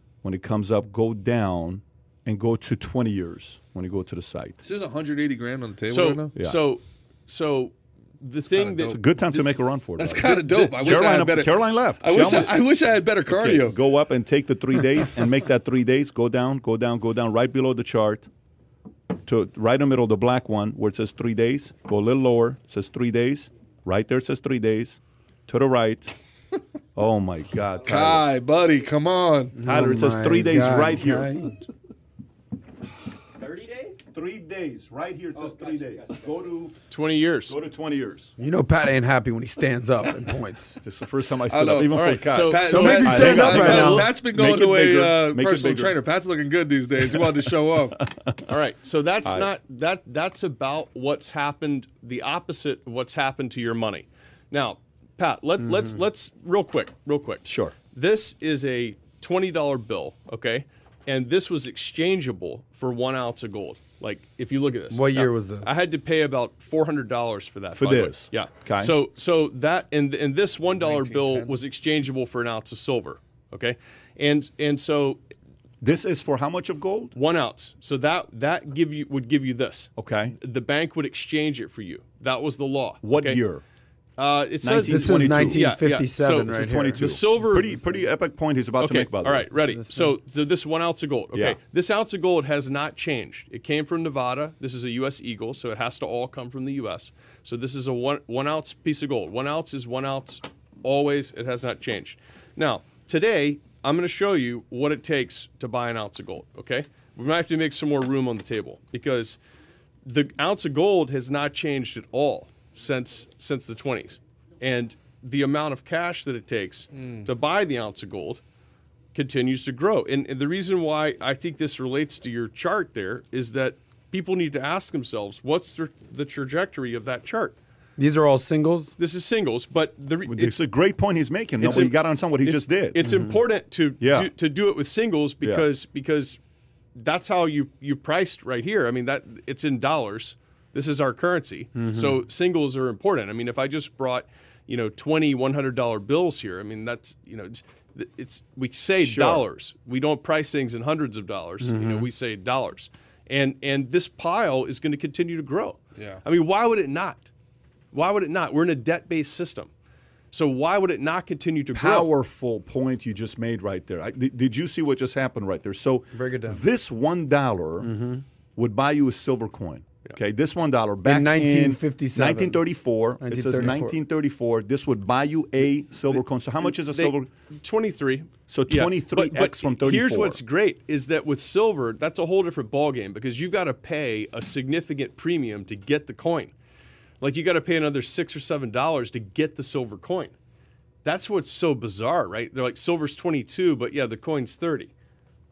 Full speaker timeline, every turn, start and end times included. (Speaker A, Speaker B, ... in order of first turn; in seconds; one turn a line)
Speaker A: 0.2-4.6
Speaker B: 4.6-6.3
Speaker C: 5.9-9.0
Speaker B: 8.6-9.4
Speaker A: 8.7-12.6
Speaker B: 10.0-13.8
Speaker A: 13.3-18.3
Speaker A: 19.2-26.1
Speaker A: 26.9-28.2
Speaker B: 27.8-29.6
Speaker D: 29.6-31.5
Speaker A: 29.6-31.5
Speaker A: 34.1-36.8
Speaker C: 36.9-37.6
Speaker A: 37.5-38.3
Speaker D: 38.4-40.8
Speaker A: 40.8-46.0
Speaker B: 41.5-48.0
Speaker C: 41.9-43.8
Speaker D: 42.7-44.1
Speaker A: 48.0-48.4
Speaker C: 48.5-75.2
Speaker A: 57.4-57.8
Speaker D: 64.9-65.7
Speaker A: 67.7-68.9
Speaker B: 70.8-71.5
Speaker A: 75.8-77.1
Speaker C: 77.1-83.4
Speaker A: 80.0-80.4
Speaker A: 83.0-83.6
Speaker C: 84.2-88.1
Speaker A: 84.6-85.6
Speaker D: 84.9-87.1
Speaker A: 86.5-89.5
Speaker C: 88.8-109.4
Speaker D: 89.7-90.1
Speaker A: 91.3-91.6
Speaker C: 110.1-118.4
Speaker B: 117.0-117.3
Speaker C: 119.1-127.5
Speaker D: 128.0-128.9
Speaker C: 129.0-130.6
Speaker A: 130.2-133.0
Speaker C: 131.6-136.4
Speaker D: 133.0-133.3
Speaker A: 134.0-134.3
Speaker A: 135.4-135.7
Speaker C: 136.9-157.2
Speaker D: 141.8-142.2
Speaker A: 149.0-149.4
Speaker D: 151.6-152.1
Speaker B: 155.9-156.2
Speaker C: 157.9-159.7
Speaker C: 160.3-162.1
Speaker A: 161.7-167.9
Speaker D: 166.1-166.6
Speaker D: 167.8-168.2
Speaker A: 168.6-177.3
Speaker D: 171.0-172.6
Speaker D: 173.2-173.9
Speaker C: 176.6-186.5
Speaker A: 178.5-180.4
Speaker C: 187.2-190.3
Speaker C: 191.0-194.9